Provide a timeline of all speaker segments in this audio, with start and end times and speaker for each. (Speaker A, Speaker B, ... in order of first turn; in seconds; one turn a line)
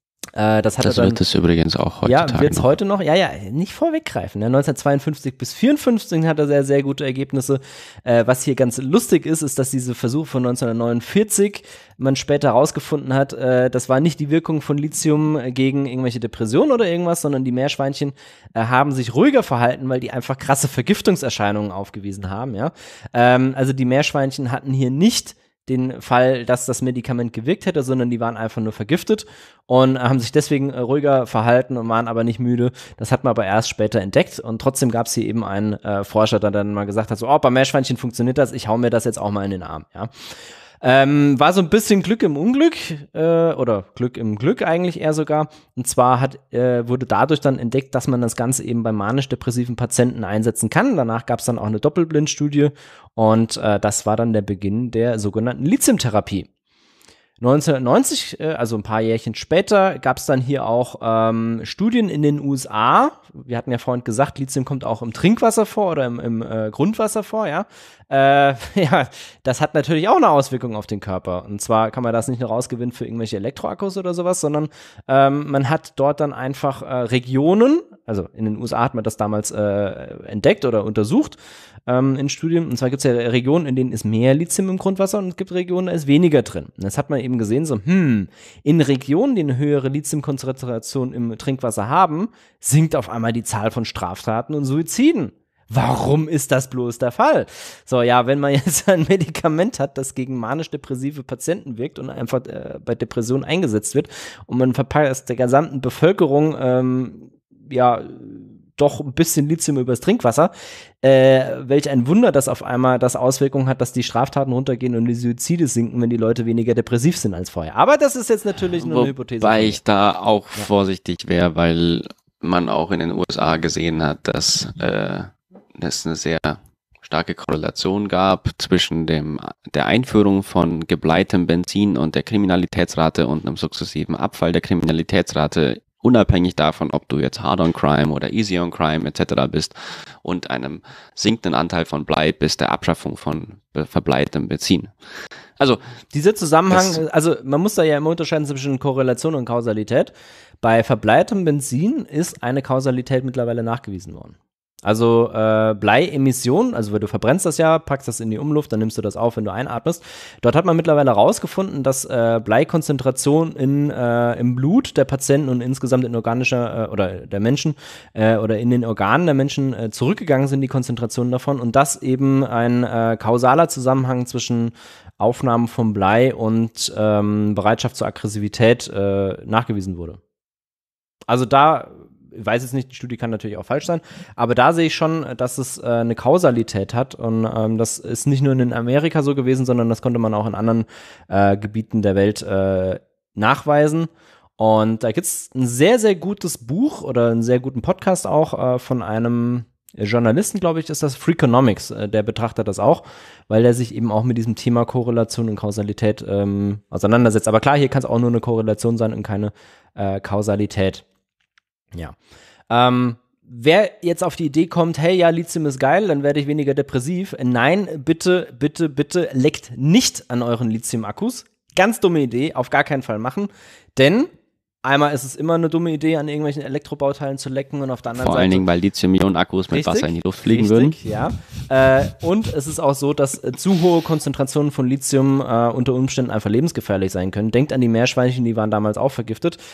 Speaker A: 0.4-1.2
Speaker B: 0.8-2.7
Speaker A: 2.0-40.1
Speaker A: 40.8-56.5
Speaker A: 57.4-110.5
Speaker A: 111.0-119.8
Speaker B: 118.8-144.9
Speaker A: 146.1-180.2
Speaker B: 146.7-147.0
Speaker A: 181.3-211.0
Speaker A: 212.7-224.3
Speaker A: 224.8-228.7
Speaker B: 228.2-231.0
Speaker A: 229.7-239.6